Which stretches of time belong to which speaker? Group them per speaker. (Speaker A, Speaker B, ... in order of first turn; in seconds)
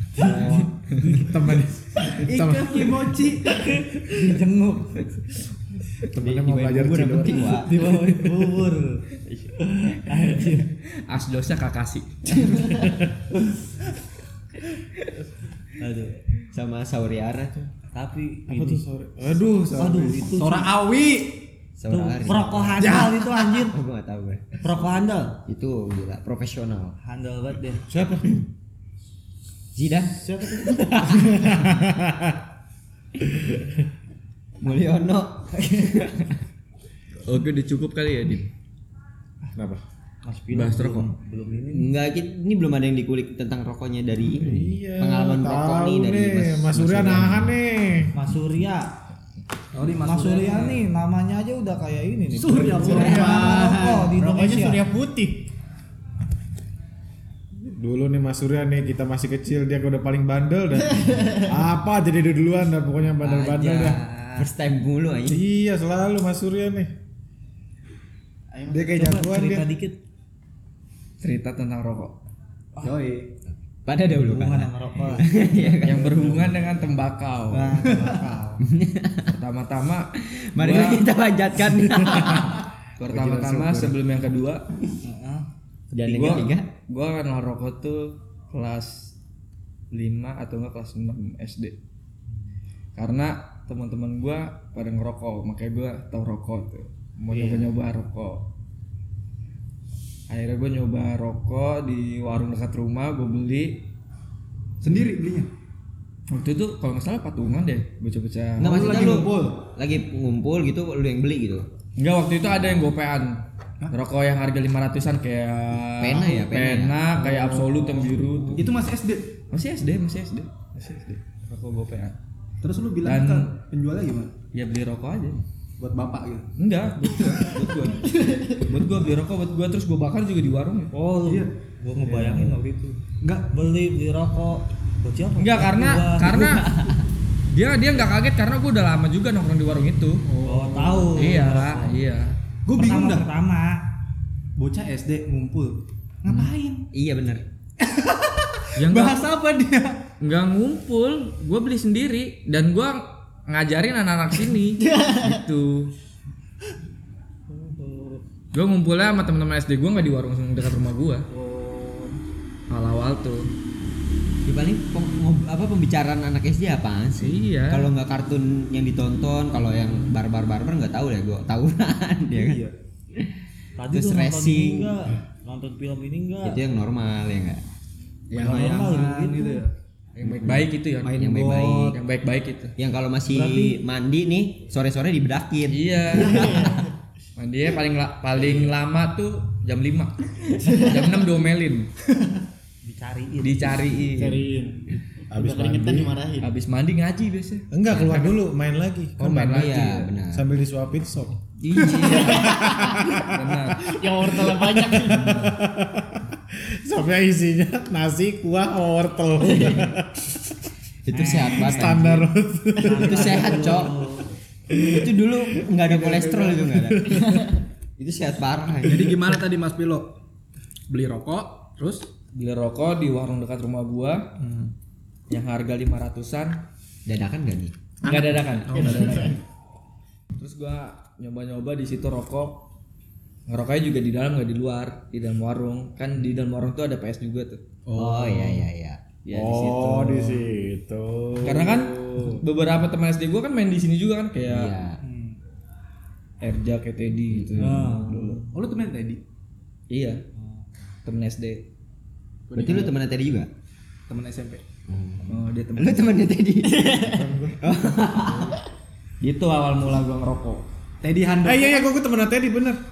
Speaker A: 0.2-0.7, 2.0-5.2, 7.5-9.1, 9.6-10.7, 15.8-16.2, 17.9-18.8, 19.7-20.7, 21.9-23.8, 24.6-25.4, 27.0-27.9, 30.2-31.2, 40.2-41.9, 48.1-48.9, 50.0-54.9, 63.6-64.5, 68.9-70.0, 74.1-75.5, 77.5-78.5, 85.0-85.5, 130.9-133.0, 133.5-136.6, 140.4-142.0, 142.7-143.8, 146.2-146.8, 157.5-158.2, 173.8-176.6, 178.4-179.6, 183.3-183.7, 192.8-193.8, 211.1-212.1, 212.8-214.3, 247.6-248.5, 250.4-250.7
Speaker B: 0.2-3.1, 6.1-7.5, 18.5-20.3, 27.9-28.4, 31.2-32.4, 39.5-39.8, 44.2-48.1, 57.6-64.0, 65.3-66.9, 68.7-69.7, 76.0-76.4, 83.0-84.0, 195.3-196.1, 197.7-199.7, 200.3-210.4, 211.6-213.5, 239.3-242.0, 256.9-258.6, 261.4-262.8
Speaker C: 2.5-3.3, 8.0-8.4, 20.3-21.5, 22.8-23.7, 49.7-50.8, 52.3-53.8, 72.8-73.3, 77.8-78.6, 97.3-97.7, 104.8-105.5, 108.6-109.6, 117.1-119.4, 122.6-124.4, 125.8-126.5, 131.2-132.6, 133.2-133.6, 140.3-141.4, 142.7-143.3, 144.6-146.4, 147.8-149.9, 161.3-162.2, 172.3-172.7, 178.3-179.7, 181.0-182.0, 215.8-217.4, 218.8-220.1, 220.9-222.1, 224.4-224.7, 228.1-229.3, 237.9-238.7, 245.0-245.4, 247.6-249.2, 252.5-252.9, 254.1-254.6, 261.0-261.8
Speaker D: 6.2-7.9, 16.5-17.7, 21.8-23.0, 23.6-24.7, 25.5-26.9, 29.8-31.4, 34.6-36.4, 41.7-47.5, 63.2-65.4, 73.8-76.2, 78.6-79.3, 80.3-82.6, 85.9-86.7, 108.6-111.7, 116.0-117.0, 136.6-136.9, 146.9-147.4, 164.5-172.6, 173.9-174.9, 176.4-177.6, 180.2-182.0, 182.8-186.9, 199.4-200.5, 201.6-202.5, 209.4-209.9, 211.1-212.2, 212.9-214.1, 214.8-217.2, 218.0-219.2, 227.1-227.7, 237.9-239.0, 244.4-245.0, 252.6-253.5, 254.9-257.1, 257.6-258.5
Speaker E: 10.9-13.1, 37.2-38.5, 40.5-41.1, 71.2-72.2, 75.8-78.1, 79.3-81.1, 82.1-84.6, 86.1-89.1, 89.9-91.8, 93.0-98.5, 100.3-103.8, 106.3-109.3, 112.0-118.8, 119.5-122.2, 123.0-123.5, 124.5-125.4, 126.6-130.9, 135.4-136.9, 137.5-140.2, 141.1-142.3, 148.8-149.2, 150.2-155.9, 158.5-161.3, 162.7-163.5, 167.2-167.9, 178.3-178.8, 180.2-181.3, 181.9-182.7, 185.7-186.8, 187.4-191.9, 193.4-194.5, 196.4-198.4, 199.2-200.1, 201.7-202.3, 203.2-203.9, 222.3-224.3, 225.3-226.6, 228.1-229.4, 230.4-232.6, 233.5-237.6, 239.2-240.5, 241.4-244.8, 246.4-248.5, 249.9-250.2, 251.1-251.7, 255.3-256.2, 259.2-260.6
Speaker F: 52.8-55.5, 61.0-61.5, 68.5-69.2, 128.1-128.6, 154.8-155.4, 186.1-186.9, 194.1-196.5, 202.1-202.9, 203.9-205.5, 256.7-257.3